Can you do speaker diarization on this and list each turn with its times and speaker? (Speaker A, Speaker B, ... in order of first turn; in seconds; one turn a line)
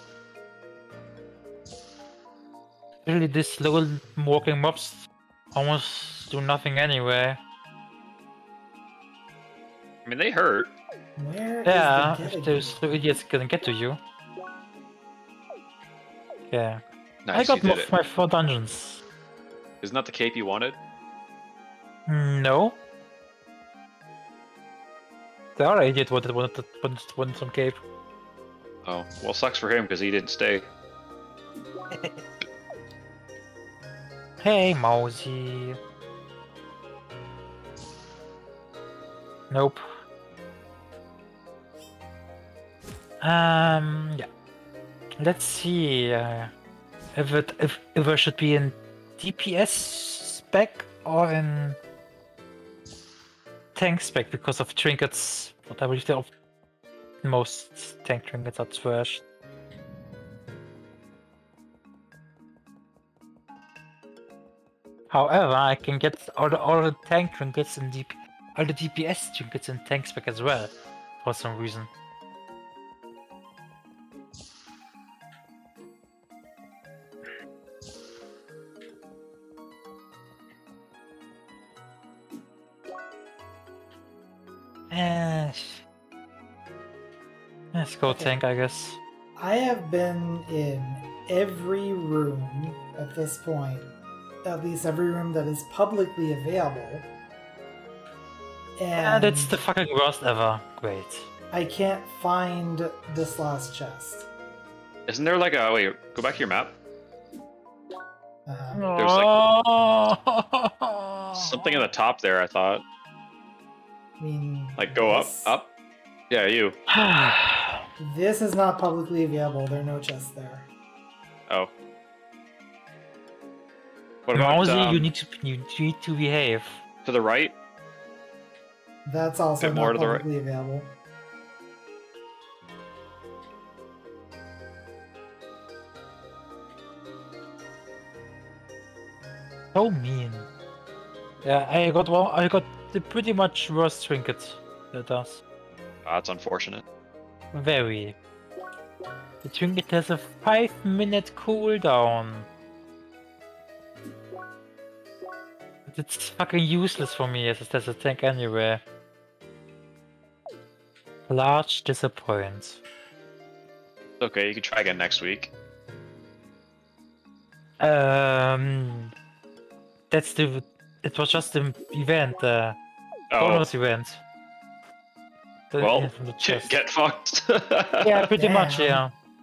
Speaker A: 3.0-7.4
Speaker B: 10.1-10.7
Speaker C: 11.2-12.9
Speaker A: 11.7-14.0
Speaker A: 16.5-16.8
Speaker B: 17.2-17.9
Speaker A: 17.3-19.0
Speaker B: 19.8-20.8
Speaker A: 22.1-22.8
Speaker A: 25.6-27.8
Speaker B: 28.9-30.7
Speaker A: 31.9-32.2
Speaker A: 34.4-35.8
Speaker A: 39.5-39.8
Speaker A: 43.2-44.3
Speaker A: 45.2-46.5
Speaker A: 47.1-51.8
Speaker A: 53.8-56.3
Speaker A: 57.2-59.2
Speaker A: 65.1-71.9
Speaker A: 84.9-85.8
Speaker A: 87.7-89.0
Speaker C: 88.1-88.4
Speaker C: 89.4-93.9
Speaker C: 94.4-97.1
Speaker C: 98.8-99.6
Speaker A: 99.0-101.3
Speaker C: 101.5-104.3
Speaker B: 105.1-106.8
Speaker C: 108.5-108.9
Speaker A: 108.7-111.9
Speaker B: 109.0-109.3
Speaker B: 111.4-112.8
Speaker C: 114.2-115.5
Speaker B: 114.8-115.7
Speaker B: 116.3-116.8
Speaker A: 116.9-117.8
Speaker C: 118.0-120.7
Speaker B: 124.3-125.1
Speaker A: 124.3-126.8
Speaker B: 127.0-127.6
Speaker C: 129.1-130.9
Speaker B: 129.6-130.2
Speaker A: 139.7-140.5
Speaker A: 141.4-145.4
Speaker B: 146.1-146.8
Speaker A: 147.5-148.2
Speaker A: 149.4-152.5
Speaker A: 155.9-158.8
Speaker A: 161.3-162.8
Speaker B: 164.2-165.5
Speaker A: 167.8-169.1
Speaker A: 170.1-172.8
Speaker B: 173.3-173.7
Speaker A: 173.4-174.2
Speaker A: 175.7-176.8
Speaker B: 175.8-178.3
Speaker A: 178.0-179.1
Speaker C: 178.4-179.1